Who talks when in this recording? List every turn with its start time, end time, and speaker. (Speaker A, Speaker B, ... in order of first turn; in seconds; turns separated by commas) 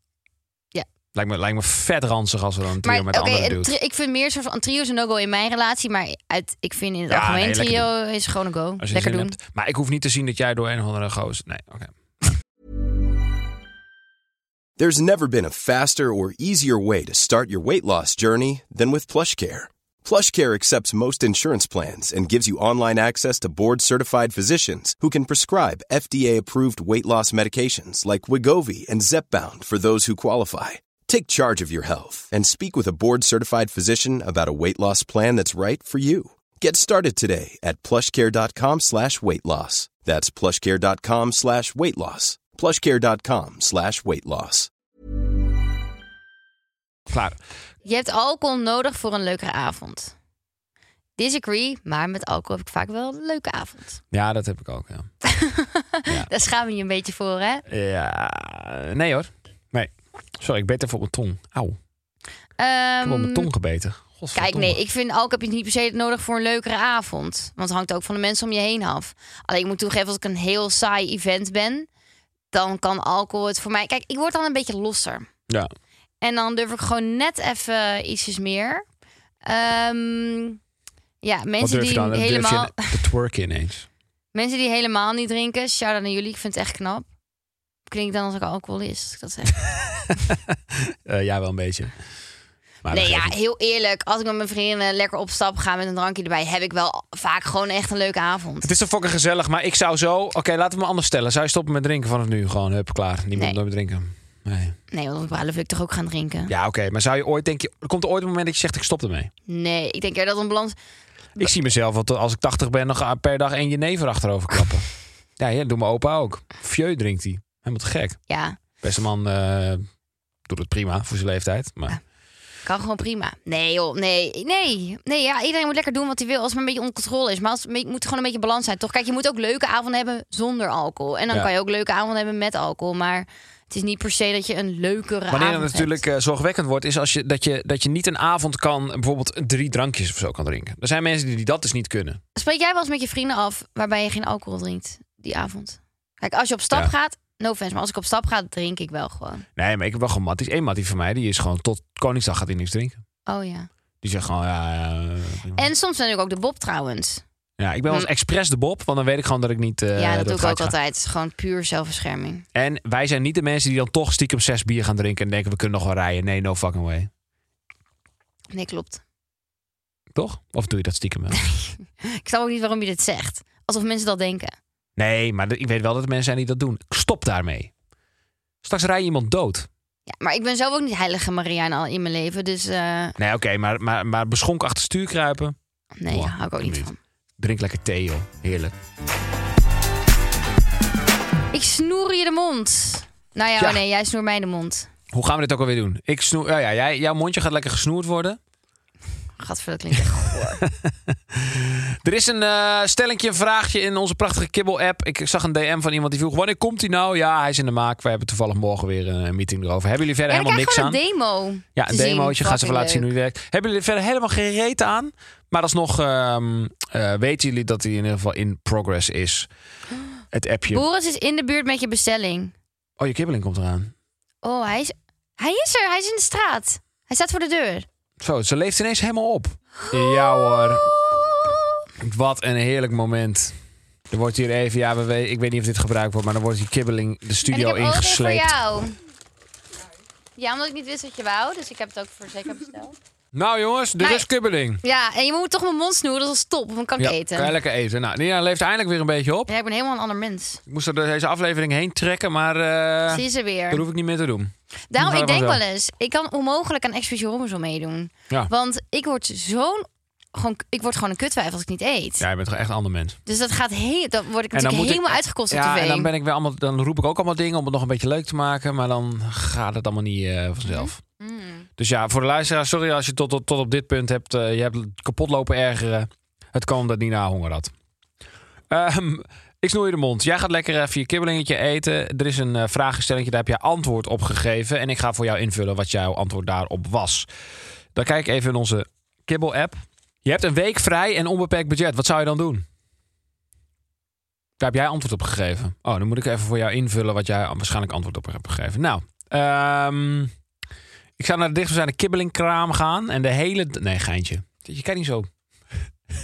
Speaker A: 1.1-3.7, Speaker B: 2.8-9.3, Speaker A: 7.1-7.9, Speaker A: 8.8-12.3, Speaker C: 14.8-44.7, Speaker A: 47.1-47.4, Speaker B: 47.8-50.1, Speaker B: 51.2-54.0, Speaker A: 54.1-55.1, Speaker B: 55.2-57.6, Speaker A: 57.7-61.8, Speaker B: 62.6-63.5, Speaker A: 63.0-64.8, Speaker B: 64.3-71.9, Speaker B: 72.5-75.3, Speaker B: 76.2-78.8, Speaker B: 79.4-80.6, Speaker B: 81.2-83.0, Speaker A: 81.6-83.9, Speaker B: 84.3-87.1, Speaker B: 87.9-89.6, Speaker A: 89.7-91.9, Speaker A: 92.8-93.3, Speaker B: 92.9-98.7, Speaker A: 98.6-104.8, Speaker B: 104.9-106.5, Speaker A: 106.5-109.3, Speaker B: 109.5-110.7, Speaker A: 111.4-114.9, Speaker A: 115.4-118.2, Speaker B: 118.3-118.6, Speaker A: 118.8-119.8, Speaker A: 120.5-122.0, Speaker B: 122.6-136.0, Speaker A: 135.3-142.2, Speaker B: 142.3-149.4, Speaker A: 149.6-153.0, Speaker B: 153.3-153.7, Speaker A: 154.0-155.7, Speaker B: 155.5-157.2, Speaker A: 157.6-160.7, Speaker B: 159.9-162.4, Speaker A: 162.5-167.1, Speaker B: 168.5-169.0, Speaker A: 170.1-171.4, Speaker B: 171.3-174.6, Speaker A: 175.0-177.7, Speaker A: 178.6-179.7, Speaker B: 180.1-183.2, Speaker A: 183.2-185.6, Speaker B: 186.0-187.0, Speaker A: 186.1-188.7, Speaker B: 191.5-194.9, Speaker A: 193.6-193.8, Speaker A: 195.1-198.4, Speaker B: 199.4-200.6, Speaker A: 200.4-211.0, Speaker B: 210.3-213.1, Speaker A: 211.8-219.5, Speaker A: 220.3-220.8, Speaker B: 220.7-222.5, Speaker A: 223.0-223.9, Speaker B: 224.4-227.8, Speaker A: 228.2-230.9, Speaker B: 229.8-231.7, Speaker A: 232.0-233.5, Speaker A: 234.1-238.6, Speaker B: 237.5-238.9, Speaker B: 240.4-242.9, Speaker A: 243.3-244.8, Speaker B: 244.0-244.3, Speaker B: 244.8-247.5, Speaker A: 247.0-249.5, Speaker B: 249.5-250.6, Speaker A: 250.7-255.6, Speaker B: 253.1-253.8, Speaker B: 254.9-262.2, Speaker A: 262.2-263.2, Speaker B: 263.2-266.1, Speaker A: 264.5-271.0, Speaker B: 270.6-271.7, Speaker A: 271.8-277.7, Speaker A: 278.7-287.3, Speaker A: 287.9-292.6, Speaker A: 294.6-300.3, Speaker A: 301.2-305.3